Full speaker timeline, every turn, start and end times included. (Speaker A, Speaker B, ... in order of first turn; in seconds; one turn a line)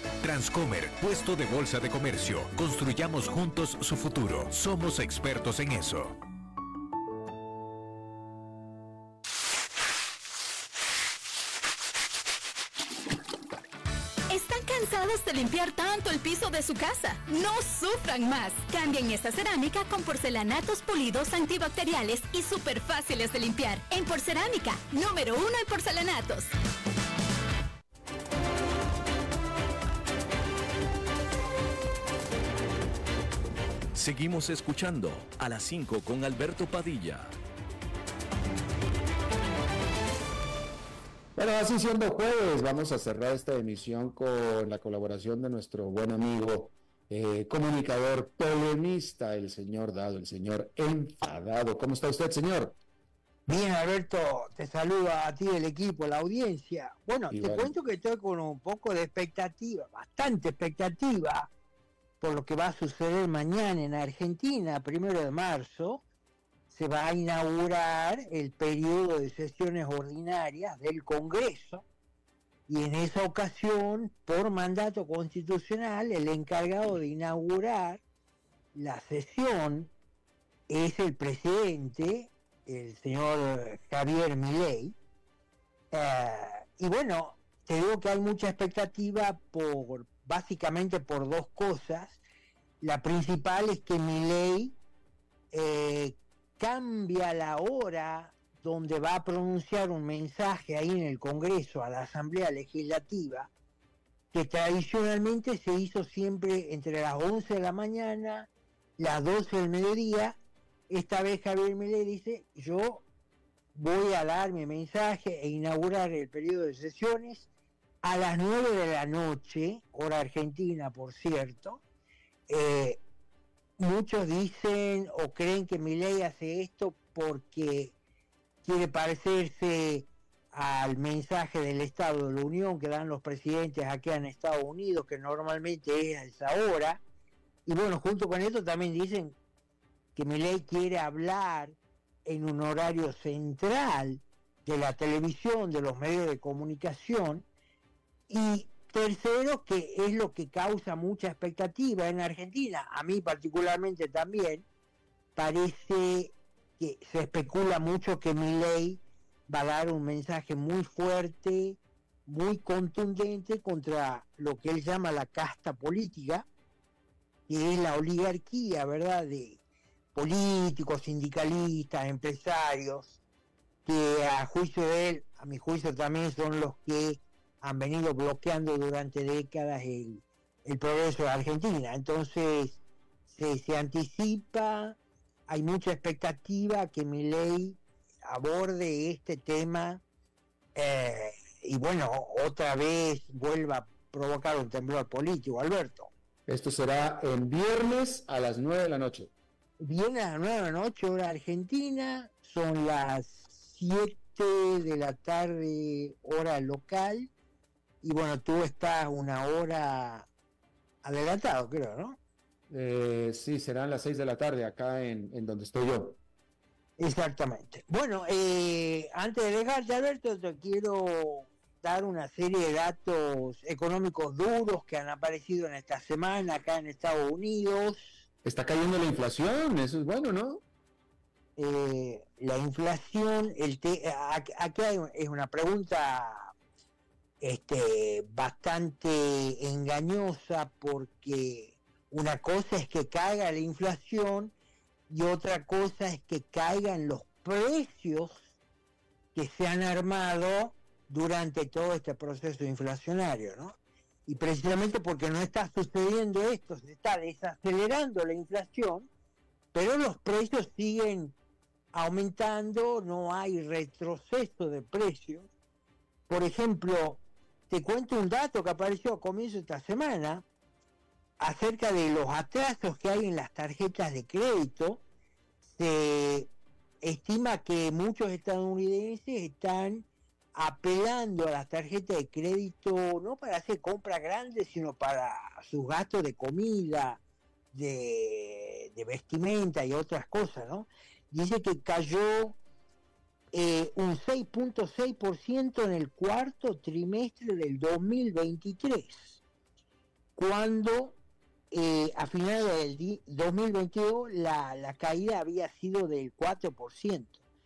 Speaker A: 0.2-6.2
Speaker B: 14.3-26.5
Speaker C: 33.9-37.4
Speaker D: 41.4-52.8
Speaker E: 53.5-61.5
Speaker D: 57.3-57.7
Speaker E: 62.2-66.0
Speaker E: 66.7-71.8
Speaker E: 72.7-78.0
Speaker E: 78.7-79.9
Speaker E: 80.7-85.0
Speaker E: 85.9-92.2
Speaker E: 92.8-94.8
Speaker E: 95.5-103.5
Speaker E: 104.3-110.4
Speaker E: 110.9-113.0
Speaker E: 113.7-117.5
Speaker E: 118.0-121.8
Speaker E: 122.5-123.0
Speaker E: 123.8-127.9
Speaker E: 128.6-137.0
Speaker E: 137.7-139.3
Speaker E: 140.1-147.4
Speaker E: 148.3-154.6
Speaker E: 155.3-166.5
Speaker E: 167.5-169.6
Speaker E: 170.1-173.2
Speaker E: 173.8-185.0
Speaker E: 185.5-190.0
Speaker E: 190.7-196.1
Speaker D: 196.5-199.3
Speaker E: 199.8-207.3
Speaker E: 208.0-210.3
Speaker E: 211.0-212.2
Speaker D: 212.7-216.2
Speaker E: 217.0-228.2
Speaker D: 228.4-230.6
Speaker E: 231.6-236.5
Speaker E: 237.4-244.5
Speaker E: 245.1-248.5
Speaker E: 249.3-253.8
Speaker E: 254.3-259.1
Speaker E: 259.7-261.4
Speaker E: 261.9-265.5
Speaker E: 266.3-270.4
Speaker E: 271.4-275.0
Speaker E: 275.6-287.2
Speaker E: 287.7-292.6
Speaker E: 293.5-299.4
Speaker E: 300.4-301.2
Speaker E: 301.7-307.4